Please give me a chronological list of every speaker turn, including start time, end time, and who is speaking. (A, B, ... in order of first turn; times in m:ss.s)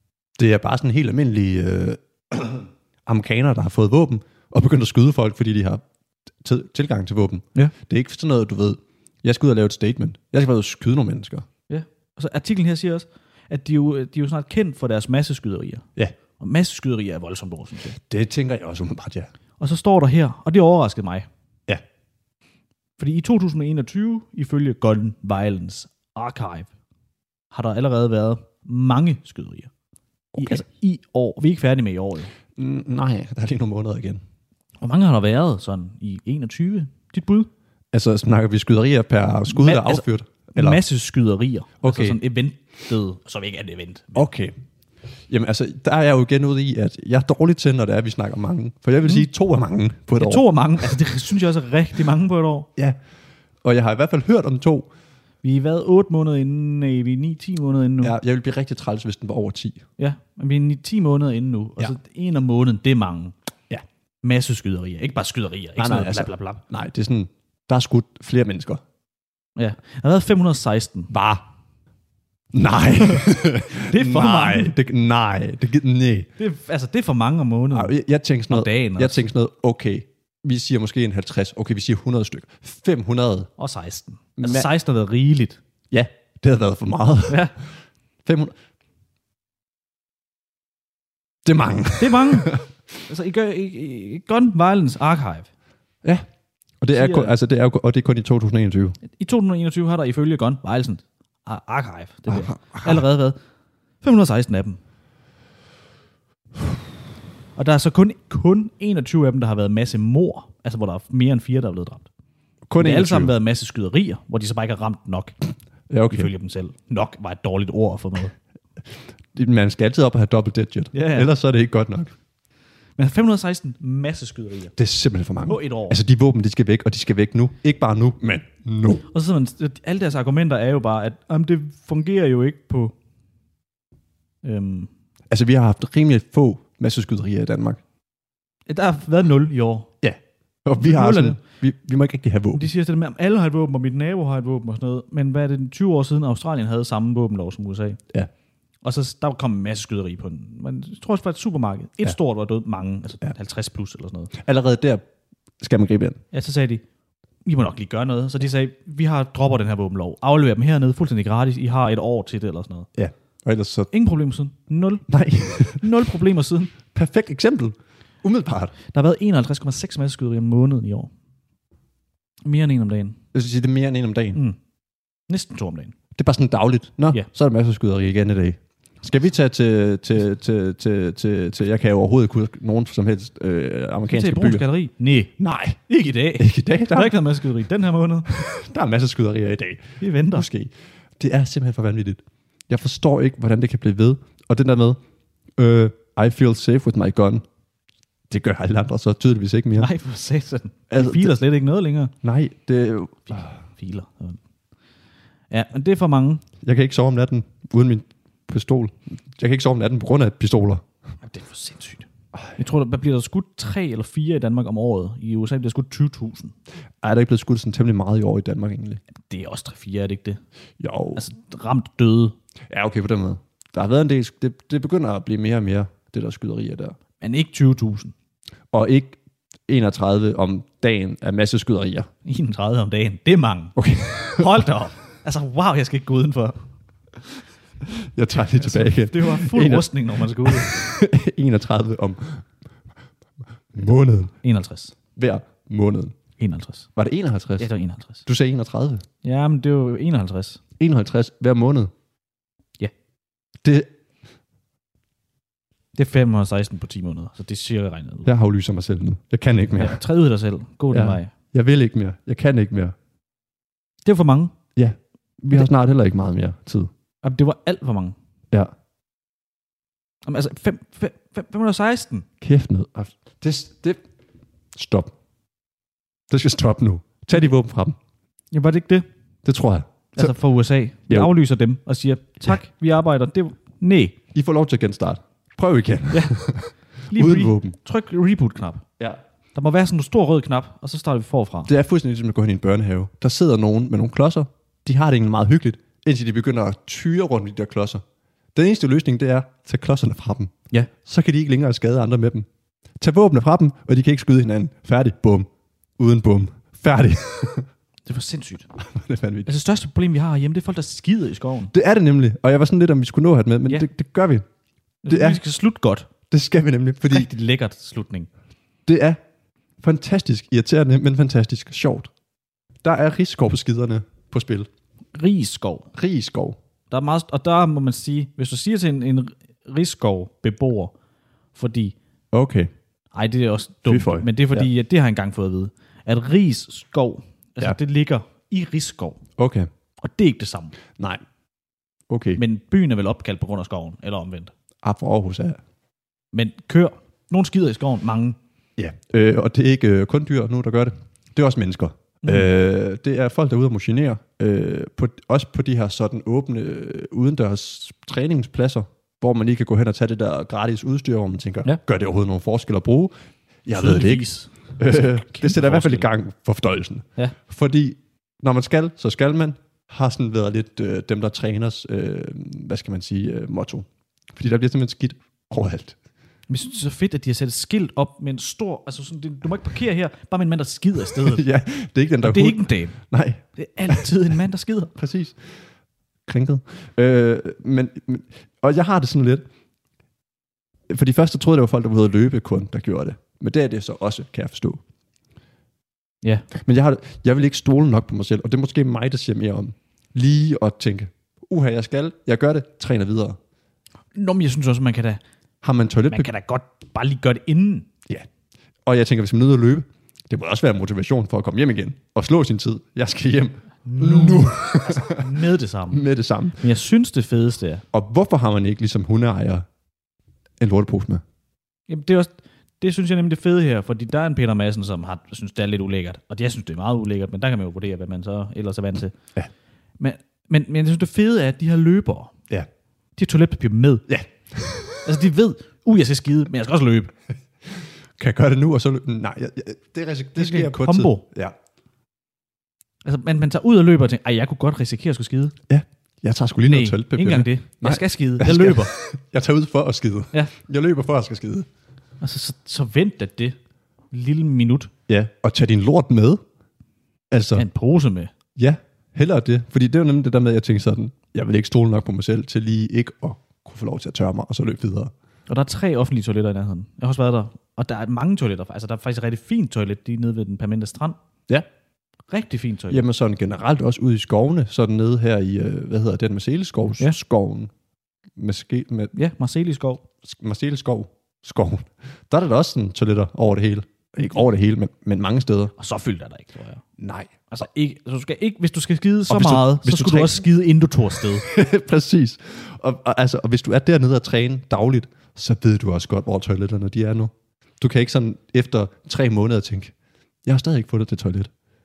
0:00.4-0:05.8 A
0:06.4-0:11.5 A
0:11.7-0:15.9 B
0:16.4-0:18.0 B
0:18.0-0:19.3 A
0:19.6-0:21.3 B
0:23.0-0:26.7 B
0:27.5-0:29.7 B
0:30.4-0:30.6 A
0:30.4-0:32.3 B
0:32.6-0:34.2 A
0:34.8-0:37.5 B
0:37.9-0:40.8 A
0:39.5-0:44.3 B
0:41.8-0:42.2 A
0:44.2-0:44.6 A
0:45.3-0:50.4 A
0:50.2-0:52.7 B
0:53.6-0:54.9 A
0:55.4-0:58.2 B
0:58.0-0:59.8 A
1:00.0-1:03.4 B
1:04.2-1:06.6 B
1:05.8-1:08.8 A
1:09.6-1:11.1 B
1:11.1-1:11.4 A
1:12.5-1:16.3 A
1:13.0-1:14.7 B
1:16.4-1:18.0 B
1:17.7-1:23.5 A
1:18.5-1:19.3 B
1:23.6-1:25.6 B
1:24.4-1:24.7 A
1:25.9-1:27.6 A
1:27.3-1:27.5 B
1:28.2-1:28.6 A
1:31.4-1:32.6 A
1:32.0-1:35.5 B
1:36.8-1:39.0 A
1:36.9-1:37.3 B
1:39.0-1:43.4 B
1:42.3-1:43.0 A
1:44.0-1:44.8 B
1:47.6-1:52.1 B
1:52.7-1:53.3 A
1:52.8-1:55.4 B
1:55.9-1:56.3 A
1:56.1-1:58.3 B
1:59.3-2:02.1 A
2:00.9-2:01.3 B
2:03.0-2:04.7 B
2:04.8-2:09.0 A
2:05.5-2:06.0 B
2:09.1-2:12.9 B
2:14.4-2:14.9 B
2:15.3-2:17.8 A
2:18.7-2:19.9 B
2:20.0-2:22.7 A
2:20.8-2:21.4 B
2:22.6-2:28.0 B
2:28.8-2:34.3 B
2:34.3-2:35.0 A
2:35.6-2:36.2 A
2:36.3-2:36.8 B
2:37.4-2:42.9 B
2:43.0-2:43.9 A
2:43.9-2:45.1 B
2:45.1-2:45.8 A
2:45.6-2:46.7 B
2:46.9-2:48.7 A
2:48.9-2:51.1 B
2:52.4-2:53.2 B
2:53.3-2:54.4 A
2:55.3-2:56.0 B
2:56.2-3:04.6 A
3:04.1-3:05.3 B
3:05.4-3:05.8 A
3:05.9-3:08.3 B
3:06.4-3:07.2 A
3:08.3-3:15.0 A
3:10.0-3:10.5 B
3:15.6-3:17.4 A
3:18.3-3:19.9 A
3:19.8-3:22.1 B
3:20.9-3:21.4 A
3:22.2-3:23.5 A
3:23.3-3:24.4 B
3:25.5-3:26.4 B
3:26.6-3:30.8 A
3:31.2-3:36.5 B
3:37.0-3:39.0 A
3:39.3-3:40.4 B
3:40.8-3:41.2 A
3:41.2-3:42.4 B
3:42.7-3:47.0 A
3:47.2-3:48.1 B
3:48.7-3:52.1 A
3:52.2-3:53.8 B
3:53.8-3:54.6 A
3:54.3-3:56.6 B
3:58.0-4:02.5 A
3:58.5-4:00.7 B
4:03.7-4:04.3 A
4:04.4-4:05.0 B
4:05.2-4:06.2 A
4:06.4-4:06.9 B
4:07.0-4:07.7 A
4:07.6-4:08.2 B
4:08.3-4:09.0 A
4:09.2-4:10.6 B
4:10.8-4:11.9 A
4:13.6-4:13.9 A
4:16.0-4:18.3 B
4:18.2-4:20.0 A
4:19.8-4:21.3 B
4:20.9-4:23.0 A
4:24.0-4:24.5 B
4:24.8-4:26.9 A
4:27.2-4:28.2 B
4:30.2-4:32.3 B
4:32.4-4:34.0 A
4:34.7-4:35.1 A
4:36.3-4:38.0 A
4:38.5-4:39.1 B
4:39.4-4:40.3 A
4:40.2-4:44.2 B
4:44.3-4:47.8 A
4:46.1-4:46.4 B
4:47.1-4:48.8 B
4:49.6-4:51.7 B
4:51.7-4:58.0 A
4:58.6-5:02.5 A
5:03.0-5:07.7 A
5:08.1-5:08.7 B
5:08.8-5:09.5 A
5:09.5-5:11.7 B
5:11.7-5:14.5 A
5:15.0-5:16.1 B
5:15.1-5:15.4 A
5:16.3-5:17.3 A
5:17.1-5:18.3 B
5:18.9-5:19.2 A
5:19.8-5:22.1 A
5:22.8-5:24.7 A
5:25.1-5:25.9 B
5:25.9-5:26.6 A
5:26.9-5:30.9 B
5:31.6-5:32.0 B
5:32.3-5:32.7 A
5:33.1-5:39.2 B
5:33.9-5:34.7 A
5:39.4-5:39.7 A
5:40.0-5:40.8 B
5:42.1-5:42.4 A
5:42.4-5:44.5 B
5:44.8-5:45.6 A
5:46.3-5:48.4 B
5:48.8-6:03.1 A
6:03.6-6:16.0 A
6:03.7-6:06.1 B
6:16.5-6:21.4 B
6:21.2-6:24.1 A
6:22.2-6:23.0 B
6:23.6-6:25.0 B
6:25.0-6:25.6 A
6:26.3-6:29.4 A
6:30.9-6:34.8 A
6:36.5-6:43.4 A
6:44.2-6:45.2 B
6:45.6-6:46.3 A
6:46.1-6:47.9 B
6:48.9-6:55.4 A
6:53.9-6:56.0 B
6:55.9-6:56.6 A
6:56.6-6:57.8 B
6:57.9-6:59.7 A
7:00.6-7:01.2 A
7:01.9-7:09.2 B
7:10.0-7:12.3 B
7:13.2-7:14.1 B
7:14.1-7:15.1 A
7:15.0-7:17.1 B
7:17.7-7:21.6 A
7:20.4-7:21.2 B
7:23.0-7:25.6 B
7:25.7-7:31.7 A
7:26.6-7:28.9 B
7:32.2-7:33.6 B
7:34.1-7:34.9 B
7:35.1-7:36.4 A
7:37.3-7:37.6 A
7:37.6-7:38.3 B
7:38.6-7:45.1 A
7:45.5-7:51.2 B
7:52.3-7:53.0 B
7:52.9-7:57.7 A
7:58.4-7:59.1 A
7:59.1-8:00.0 B
8:00.2-8:05.7 A
8:05.8-8:06.8 B
8:07.0-8:07.4 A
8:07.5-8:11.5 B
8:09.3-8:10.4 A
8:11.4-8:19.9 A
8:20.4-8:21.5 A